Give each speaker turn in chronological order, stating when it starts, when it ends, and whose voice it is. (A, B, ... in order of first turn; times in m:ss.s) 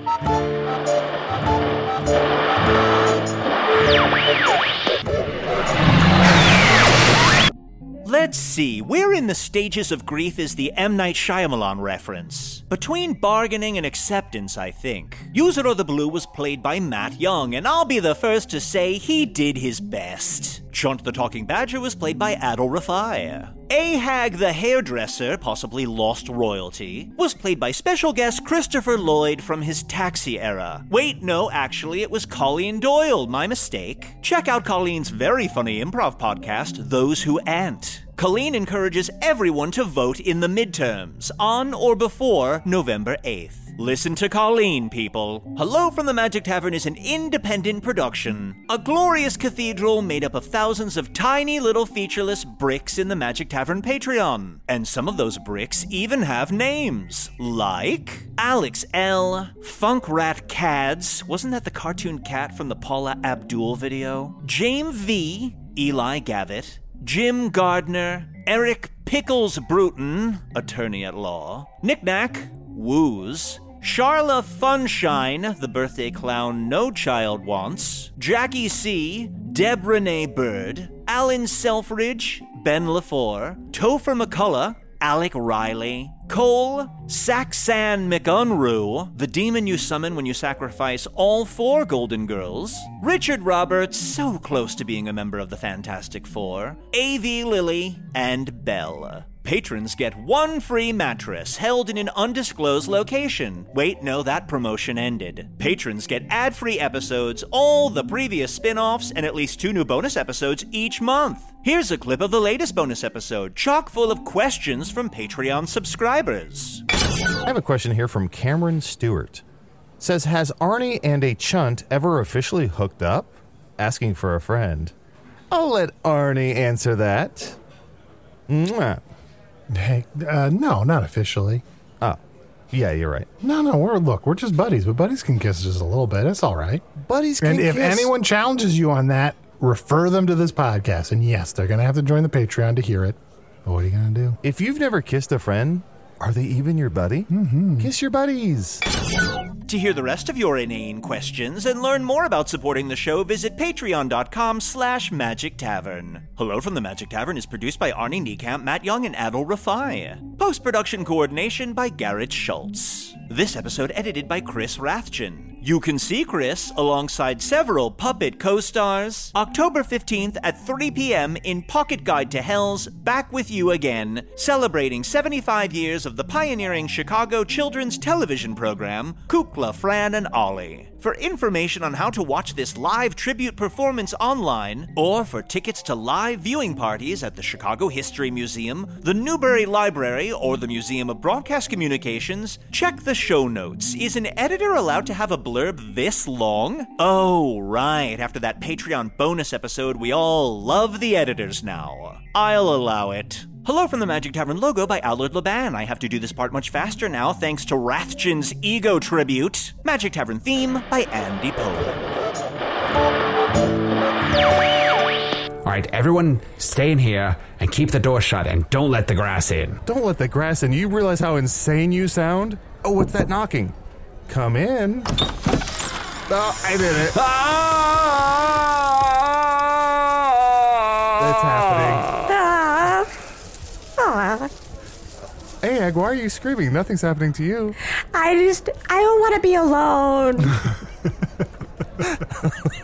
0:08.0-1:56.8 A
1:57.4-1:59.4 B
2:00.0-2:04.9 B
2:05.5-2:07.6 B
2:08.5-2:09.0 B
2:09.7-2:11.6 C
2:12.7-2:13.3 B
2:13.4-2:16.8 C
2:17.0-2:18.1 B
2:17.4-2:24.4 C
2:24.4-2:28.8 B
2:27.3-2:27.9 C
2:29.6-3:32.0 A
3:35.6-3:39.8 D
3:39.8-3:43.7 B
3:44.3-3:45.1 B
3:46.3-3:47.2 B
3:47.1-3:48.7 D
3:50.9-3:52.1 D
3:51.2-3:52.1 B
3:52.2-3:53.2 E
3:54.0-3:54.5 E
3:55.6-3:57.8 B
3:58.1-4:00.5 E